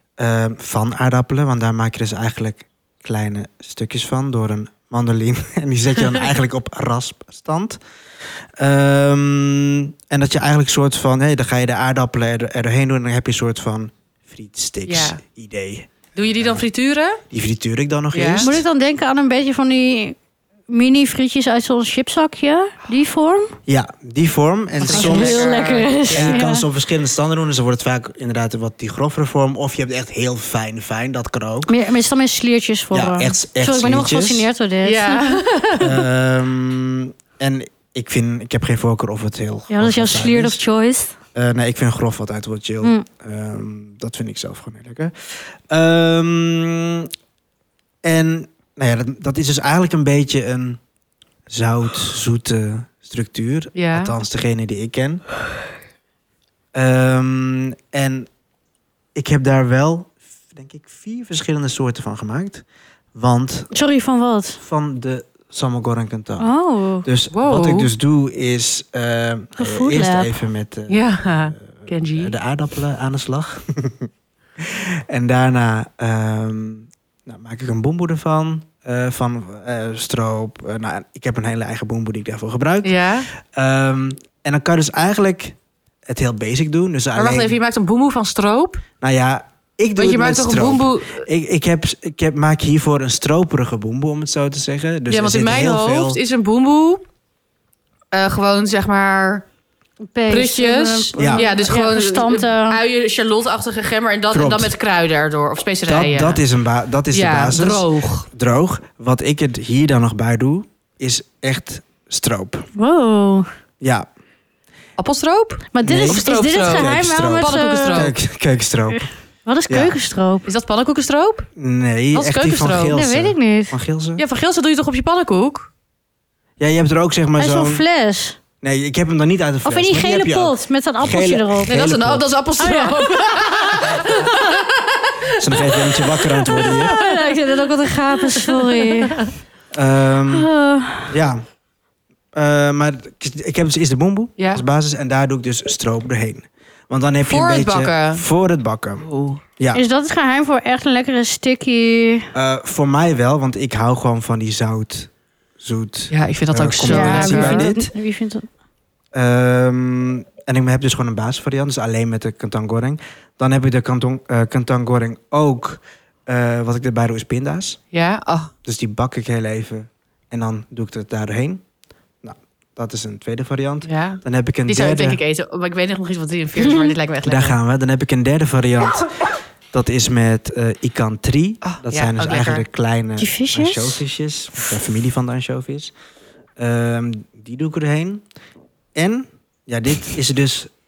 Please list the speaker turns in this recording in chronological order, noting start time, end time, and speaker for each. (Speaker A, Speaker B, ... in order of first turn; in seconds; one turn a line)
Speaker A: 0.2-7.8
Speaker A: 8.6-16.6
Speaker B: 14.9-15.2
Speaker B: 16.1-17.2
Speaker A: 17.3-18.6
Speaker B: 18.1-18.5
Speaker C: 18.4-20.2
Speaker C: 20.7-23.6
Speaker A: 23.7-31.7
Speaker B: 24.8-26.4
Speaker C: 24.9-26.6
Speaker C: 31.7-35.4
Speaker A: 32.9-34.5
Speaker B: 34.8-36.0
Speaker A: 35.8-40.6
Speaker C: 39.7-41.1
Speaker A: 41.3-47.1
Speaker A: 48.0-50.8
Speaker A: 51.5-55.2
Speaker B: 53.7-54.1
Speaker A: 56.7-58.3
Speaker A: 59.1-62.6
Speaker A: 63.1-63.7
Speaker C: 63.7-64.6
Speaker A: 64.6-66.5
Speaker C: 66.4-67.1
Speaker A: 67.0-87.6
Speaker B: 67.3-67.9
Speaker C: 69.6-70.4
Speaker B: 70.9-72.3
Speaker B: 82.8-83.3
Speaker B: 87.2-88.8
Speaker A: 89.0-96.2
Speaker B: 90.0-91.2
Speaker B: 95.1-97.0
Speaker B: 98.1-99.4
Speaker C: 100.1-102.8
Speaker B: 100.3-106.4
Speaker A: 101.2-101.5
Speaker A: 104.3-104.7
Speaker A: 105.8-112.7
Speaker B: 107.1-108.3
Speaker C: 112.8-113.5
Speaker A: 113.8-114.1
Speaker B: 115.0-118.1
Speaker C: 115.7-118.1
Speaker A: 115.8-119.1
Speaker C: 119.5-120.5
Speaker A: 119.7-119.9
Speaker B: 120.5-121.5
Speaker A: 121.6-124.2
Speaker B: 122.1-123.0
Speaker C: 122.9-123.8
Speaker B: 124.2-125.7
Speaker A: 126.6-127.8
Speaker C: 127.4-128.4
Speaker A: 128.6-132.3
Speaker C: 129.6-131.8
Speaker B: 131.7-137.4
Speaker C: 132.6-134.4
Speaker A: 135.4-137.0
Speaker C: 136.5-139.3
Speaker B: 138.2-139.3
Speaker A: 139.7-140.5
Speaker C: 140.3-141.1
Speaker A: 141.1-141.4
Speaker A: 142.3-149.8
Speaker B: 144.4-144.6
Speaker B: 147.2-148.2
Speaker B: 149.1-149.4
Speaker C: 149.7-152.3
Speaker A: 152.3-157.9
Speaker B: 156.1-157.7
Speaker C: 156.8-158.5
Speaker A: 159.1-167.8
Speaker B: 167.9-168.5
Speaker A: 168.7-171.6
Speaker A: 172.2-175.2
Speaker B: 173.8-177.6
Speaker A: 177.2-179.1
Speaker A: 179.7-185.9
Speaker B: 181.6-182.6
Speaker C: 183.2-184.0
Speaker A: 186.6-188.2
Speaker A: 188.9-190.7